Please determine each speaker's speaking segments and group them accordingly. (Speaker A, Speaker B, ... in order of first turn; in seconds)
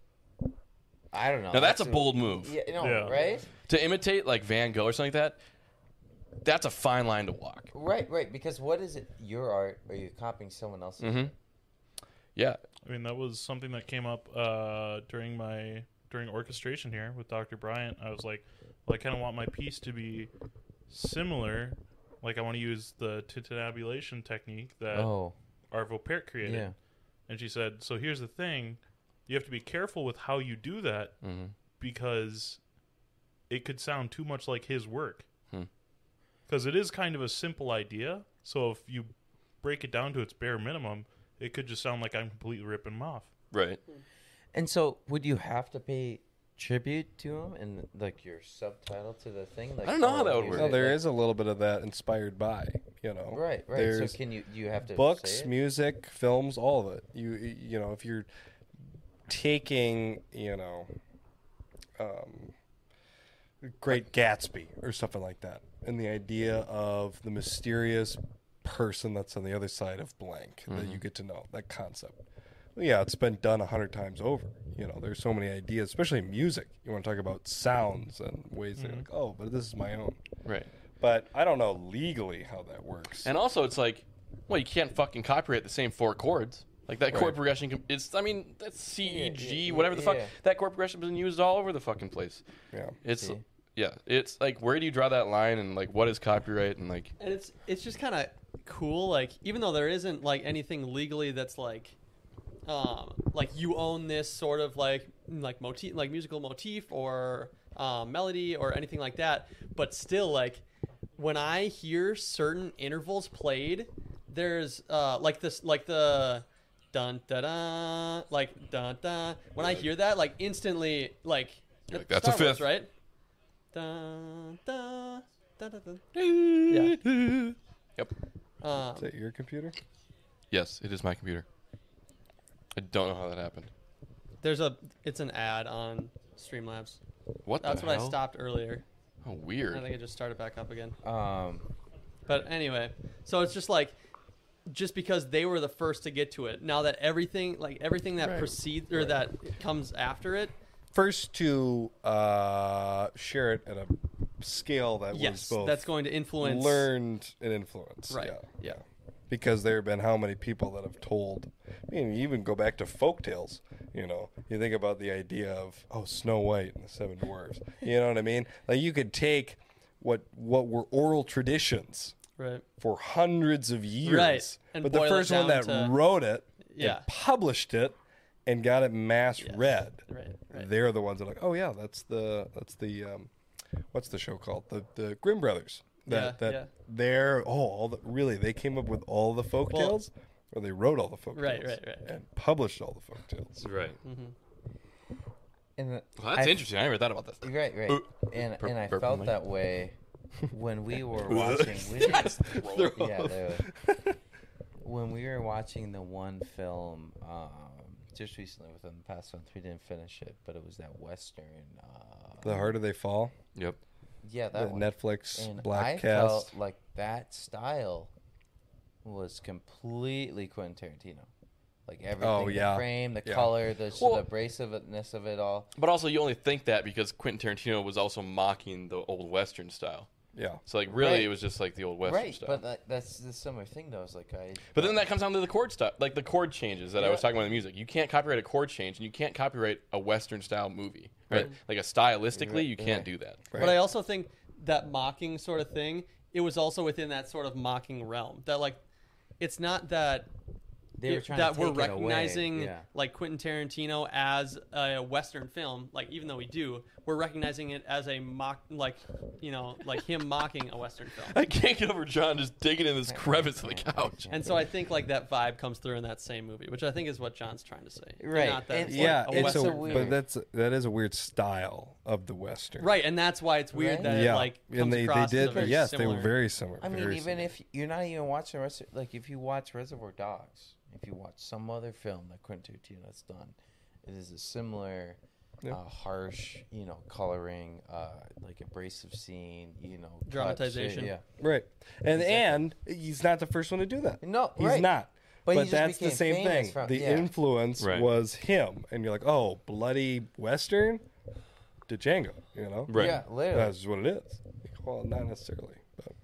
Speaker A: 1.1-3.5, 7.7-11.3, 24.9-25.4, 26.4-26.8, 44.5-51.0, 53.3-55.5, 89.0-90.3, 93.1-93.4, 141.0-141.7, 195.8-196.7, 197.4-200.0, 200.5-203.7, 204.8-212.7, 214.2-218.1, 219.0-221.3, 221.9-225.7, 230.9-231.3, 232.0-235.1, 237.0-237.3, 242.3-243.1, 251.0-252.9, 263.1-264.7, 268.2-270.2, 273.7-274.4, 275.4-275.8, 276.8-291.2, 292.1-292.6, 294.2-294.9, 295.4-297.3, 302.9-303.8
Speaker B: 1.5-2.6, 3.7-5.4, 6.4-7.7, 11.0-11.3, 31.2-31.5, 43.5-43.8, 49.8-50.7, 70.7-71.0, 83.2-92.4, 93.0-97.1, 121.9-122.7, 126.1-128.1, 130.5-131.5, 132.8-133.7, 137.4-138.2, 139.2-139.9, 193.6-194.0, 196.2-199.3, 201.5-203.0, 224.0-224.2, 225.8-230.1, 230.7-232.6, 234.7-243.6, 261.3-264.3, 297.8-298.1, 302.9-303.2
Speaker C: 2.8-3.2, 12.8-20.3, 20.9-25.1, 25.7-26.7, 27.3-31.2, 31.8-32.6, 33.5-35.2, 36.5-43.3, 78.8-79.1
Speaker D: 50.5-54.2, 54.9-58.3, 59.3-60.9, 62.0-62.5, 63.6-72.2, 72.8-80.2, 81.0-83.3, 129.0-129.8, 150.9-172.2, 172.8-183.3, 183.9-193.7, 201.3-204.2, 212.4-213.3, 214.5-216.5, 222.2-223.5, 230.3-230.6, 243.5-243.8, 268.9-272.9, 274.0-277.5, 291.4-301.1, 301.9-306.1
Speaker E: 97.2-102.0, 102.7-110.6, 111.2-122.9, 123.7-126.0, 126.7-127.0, 128.6-129.1, 134.4-137.0, 137.6-138.8, 139.7-141.0, 142.3-144.0, 144.7-150.6, 155.1-156.9, 158.1-158.8, 172.4-172.7, 174.0-176.0, 176.7-177.1, 179.4-180.7, 186.1-186.7, 189.7-190.0, 191.3-192.1, 194.0-194.3, 243.6-248.8, 249.4-250.3, 251.1-261.4, 264.3-270.1, 272.8-276.4, 290.3-291.1